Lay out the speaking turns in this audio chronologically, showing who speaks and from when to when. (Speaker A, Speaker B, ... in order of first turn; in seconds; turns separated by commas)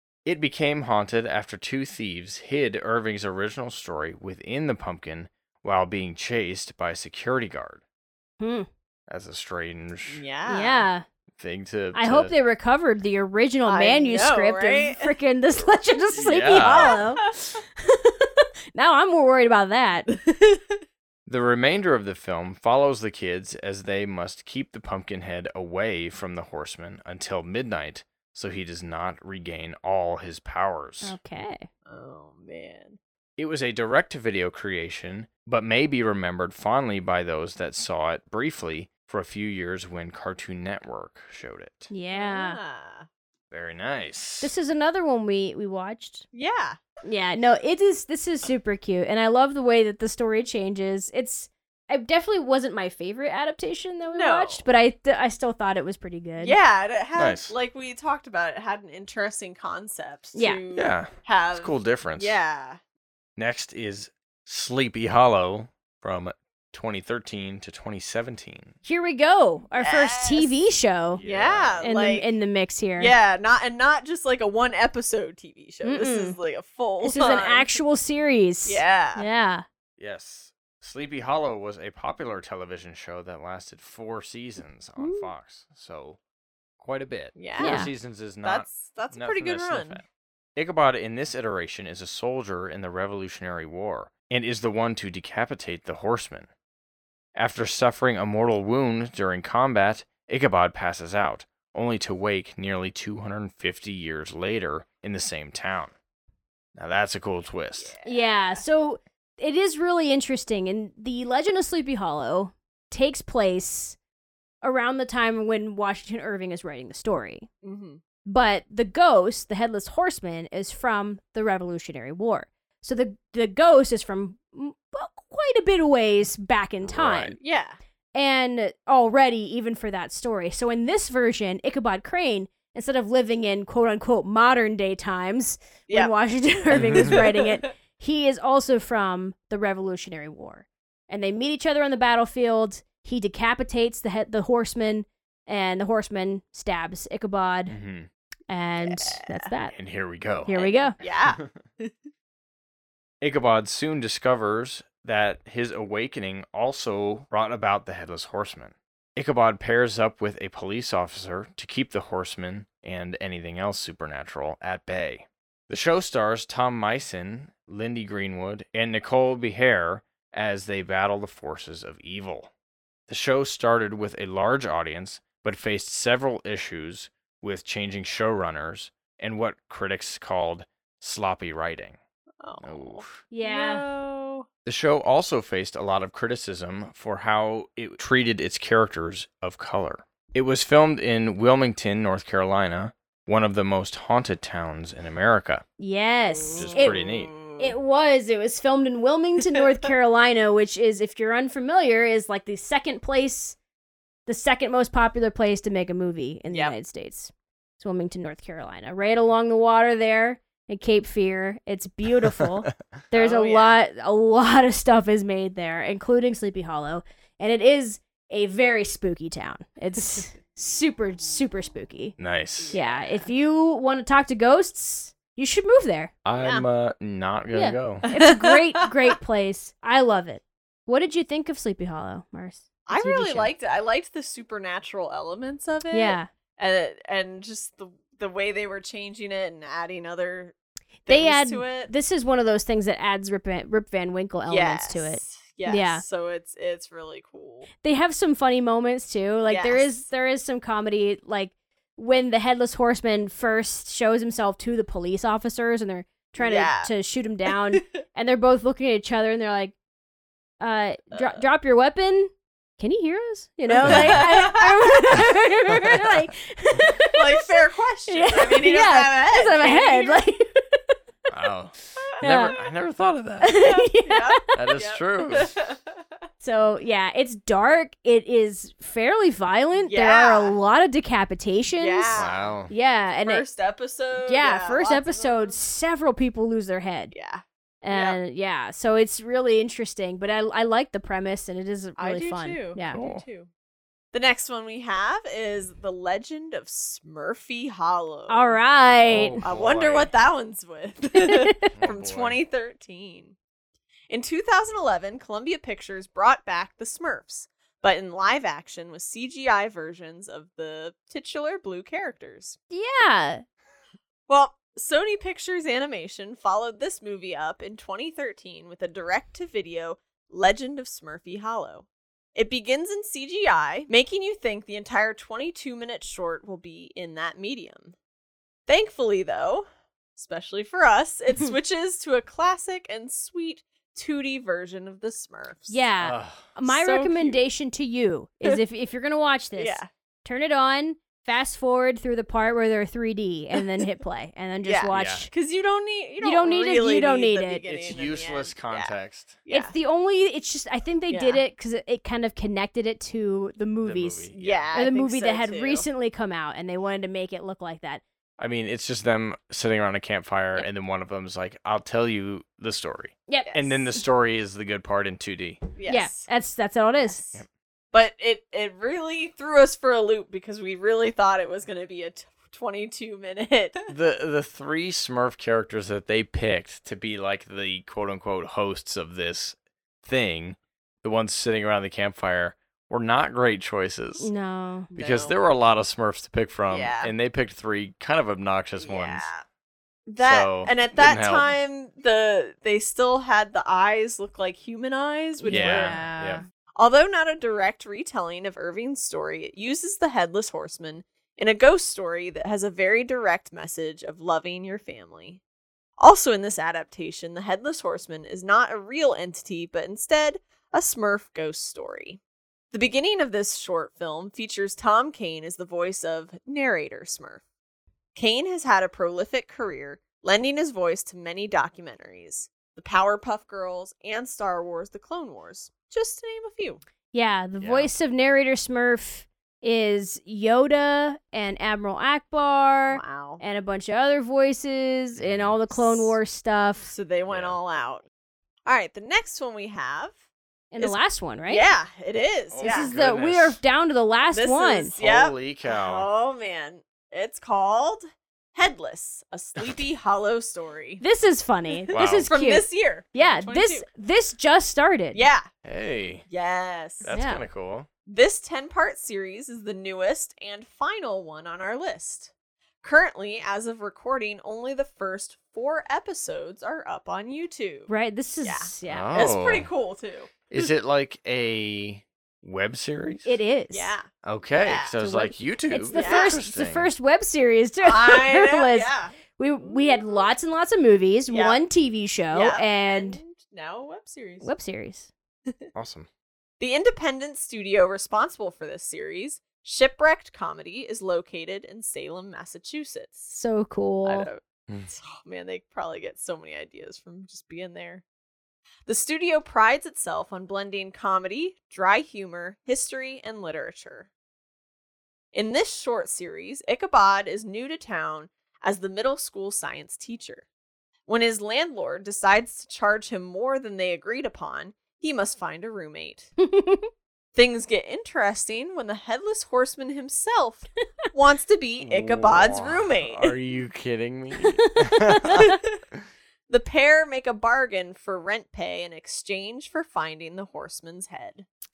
Speaker A: 0.2-7.8, Speaker B: 8.4-8.7, Speaker A: 9.1-10.2, Speaker C: 10.1-10.8, Speaker B: 10.5-11.0, Speaker A: 11.3-12.3, Speaker B: 11.9-20.1, Speaker C: 13.7-15.1, Speaker A: 16.1-17.0, Speaker C: 16.6-17.3, Speaker C: 20.1-20.6, Speaker A: 21.3-31.1, Speaker B: 31.0-31.7, Speaker C: 31.9-33.0, Speaker A: 33.4-41.9, Speaker B: 41.9-42.6, Speaker C: 42.1-43.1, Speaker A: 43.5-44.5, Speaker B: 44.4-46.2, Speaker C: 46.3-46.8, Speaker B: 47.0-56.6, Speaker C: 54.1-54.6, Speaker C: 56.4-62.8, Speaker A: 57.1-57.5, Speaker B: 60.3-60.6, Speaker A: 60.7-62.4, Speaker A: 63.4-68.7, Speaker B: 68.8-71.2, Speaker C: 69.8-70.5, Speaker A: 71.1-71.8, Speaker C: 71.2-72.3, Speaker B: 71.8-73.1, Speaker C: 73.0-77.8, Speaker B: 75.8-76.4, Speaker B: 77.0-79.6, Speaker C: 78.6-79.2, Speaker A: 80.0-86.2, Speaker B: 85.0-85.3, Speaker A: 86.8-90.0, Speaker C: 87.3-87.9, Speaker B: 87.6-87.9, Speaker C: 88.4-90.0, Speaker A: 90.5-96.5, Speaker A: 97.3-105.9, Speaker A: 106.8-107.9, Speaker C: 107.8-108.6, Speaker B: 108.0-114.0, Speaker B: 114.6-117.5, Speaker C: 117.6-118.0, Speaker B: 118.2-127.4, Speaker A: 126.8-127.3, Speaker C: 127.4-127.8, Speaker B: 128.1-147.8, Speaker A: 136.7-137.2, Speaker C: 136.7-137.7, Speaker A: 147.7-148.1, Speaker B: 148.5-149.8, Speaker C: 148.8-149.5, Speaker A: 149.7-150.5, Speaker B: 150.4-151.0, Speaker C: 150.5-151.9, Speaker A: 153.2-172.5, Speaker A: 173.1-182.0, Speaker C: 182.4-184.4, Speaker A: 182.6-183.2, Speaker B: 183.3-183.8, Speaker A: 184.6-195.6, Speaker B: 195.8-197.0, Speaker C: 196.5-197.7, Speaker A: 196.5-197.3, Speaker B: 197.6-203.6, Speaker B: 204.3-222.2, Speaker C: 213.1-213.8, Speaker A: 222.2-222.7, Speaker C: 222.6-223.2, Speaker B: 222.7-226.1, Speaker A: 226.2-228.1, Speaker C: 226.4-226.7, Speaker B: 227.5-233.5, Speaker C: 228.0-229.1, Speaker C: 232.9-240.5, Speaker B: 235.9-236.3, Speaker C: 241.1-241.9, Speaker B: 241.1-246.0, Speaker C: 244.5-247.7, Speaker B: 247.8-259.7, Speaker C: 249.5-250.0, Speaker C: 256.4-256.9, Speaker B: 260.6-267.5, Speaker C: 263.8-265.2, Speaker A: 263.8-264.2, Speaker C: 267.1-270.3, Speaker B: 268.1-270.7, Speaker A: 271.3-273.6, Speaker B: 272.2-272.6, Speaker B: 273.4-274.4, Speaker C: 273.6-275.8, Speaker A: 274.5-275.5, Speaker B: 276.4-283.4, Speaker C: 279.9-280.5, Speaker C: 281.8-282.6, Speaker A: 282.1-282.7, Speaker C: 283.2-285.6, Speaker B: 284.2-287.1, Speaker C: 287.1-288.2, Speaker B: 287.8-293.0, Speaker C: 292.0-293.5, Speaker A: 292.9-293.2, Speaker C: 294.1-298.6, Speaker B: 298.3-299.4, Speaker A: 299.0-300.1, Speaker C: 299.1-303.3, Speaker B: 301.1-301.6, Speaker A: 301.7-302.4, Speaker C: 304.1-312.6, Speaker B: 312.7-313.4, Speaker C: 314.3-327.9, Speaker C: 328.7-335.8, Speaker B: 335.7-345.3, Speaker A: 336.0-336.5, Speaker C: 336.6-337.4, Speaker C: 339.6-339.9, Speaker C: 344.6-348.9, Speaker A: 344.9-345.2, Speaker B: 346.2-347.6, Speaker A: 347.6-349.4, Speaker C: 349.4-349.7, Speaker B: 349.5-358.0, Speaker C: 351.1-351.4, Speaker A: 353.8-354.8, Speaker C: 354.3-355.9, Speaker A: 358.4-365.6, Speaker B: 363.3-363.6, Speaker C: 365.7-366.3, Speaker B: 365.9-367.2, Speaker C: 367.0-367.4, Speaker C: 367.9-373.9, Speaker A: 373.9-384.3, Speaker B: 384.2-384.9, Speaker C: 384.9-385.3, Speaker A: 384.9-389.3, Speaker C: 386.7-387.1, Speaker C: 388.8-389.4, Speaker C: 390.1-396.0, Speaker A: 390.2-391.6, Speaker B: 395.4-396.4, Speaker A: 395.5-396.4, Speaker C: 396.8-405.4, Speaker C: 406.0-412.2, Speaker C: 412.7-417.4, Speaker C: 418.1-426.8, Speaker B: 427.1-436.9, Speaker A: 427.6-427.9, Speaker C: 432.9-433.4, Speaker A: 435.2-435.5, Speaker C: 435.7-436.1, Speaker C: 436.8-438.0, Speaker A: 437.3-437.6, Speaker C: 438.6-440.1, Speaker B: 440.7-441.7, Speaker C: 441.5-442.9, Speaker A: 442.5-443.6, Speaker B: 442.6-444.9, Speaker C: 444.3-448.0, Speaker A: 445.0-446.1, Speaker C: 448.5-451.0, Speaker B: 451.0-455.2, Speaker C: 451.8-453.9, Speaker A: 451.9-452.3, Speaker C: 455.1-455.5, Speaker A: 455.6-456.2, Speaker C: 456.3-457.1, Speaker A: 457.0-457.9, Speaker B: 457.1-457.4, Speaker C: 458.1-462.3, Speaker C: 462.8-467.9, Speaker B: 467.9-469.3, Speaker C: 468.4-470.7, Speaker A: 468.9-469.7, Speaker A: 470.5-473.4, Speaker B: 473.2-473.9, Speaker C: 473.7-474.1, Speaker A: 474.2-476.9, Speaker C: 474.6-474.9, Speaker B: 475.0-483.2, Speaker C: 475.9-476.3, Speaker C: 477.8-480.1, Speaker C: 481.3-481.6, Speaker C: 482.3-484.5, Speaker B: 484.4-485.1, Speaker A: 485.7-486.1, Speaker C: 486.6-493.4, Speaker B: 493.3-494.3, Speaker C: 494.0-498.0, Speaker C: 498.9-504.1, Speaker C: 505.3-510.4, Speaker C: 511.1-516.3, Speaker B: 516.4-516.9, Speaker C: 517.3-523.4, Speaker A: 521.8-525.4, Speaker B: 524.4-525.6, Speaker C: 526.5-531.5